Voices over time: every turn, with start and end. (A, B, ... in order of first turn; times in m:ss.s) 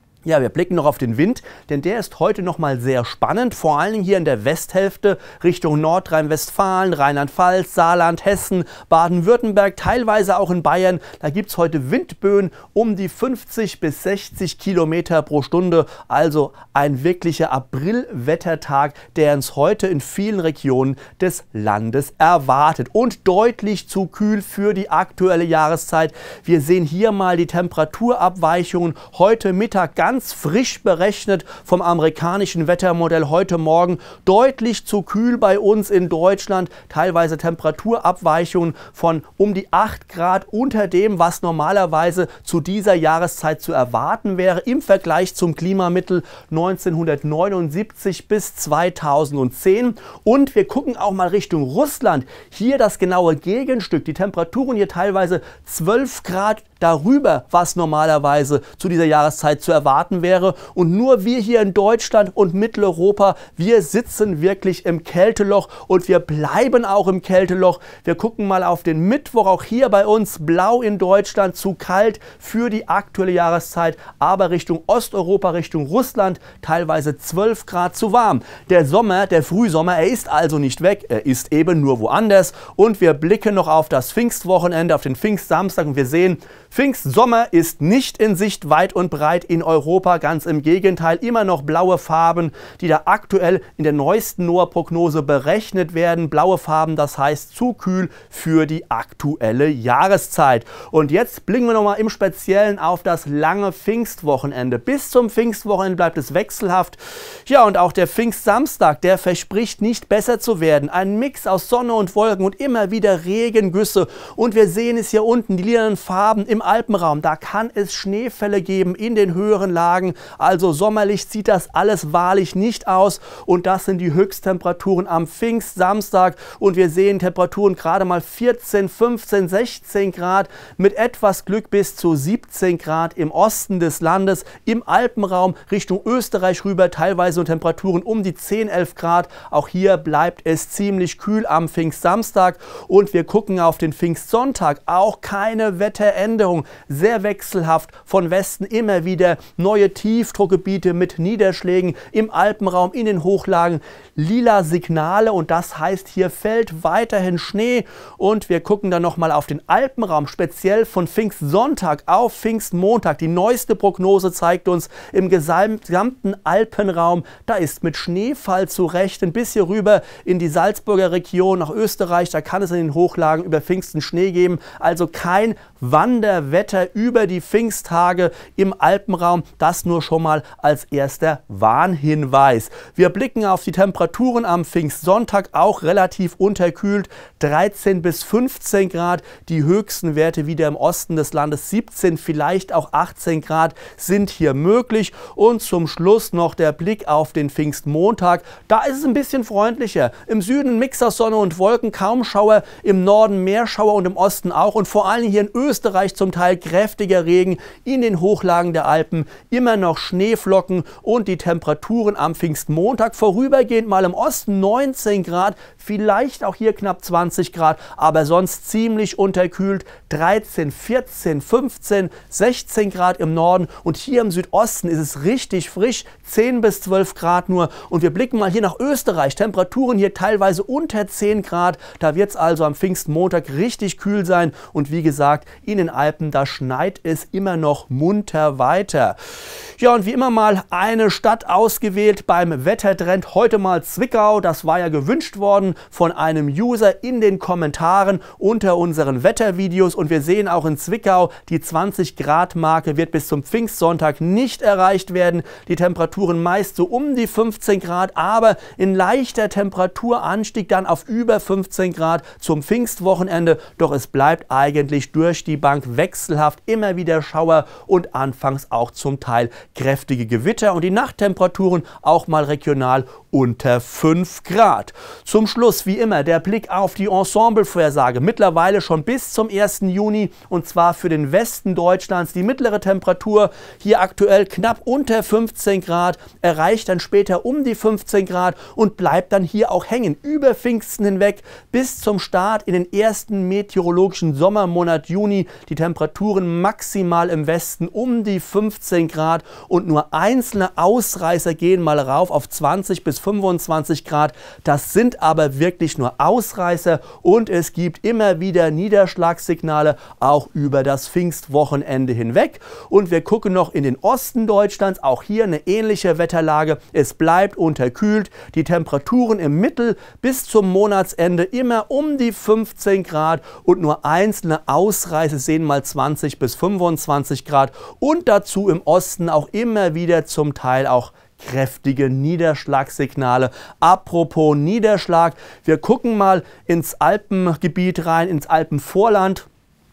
0:00.2-3:59.2 A
3:59.8-5:39.5 A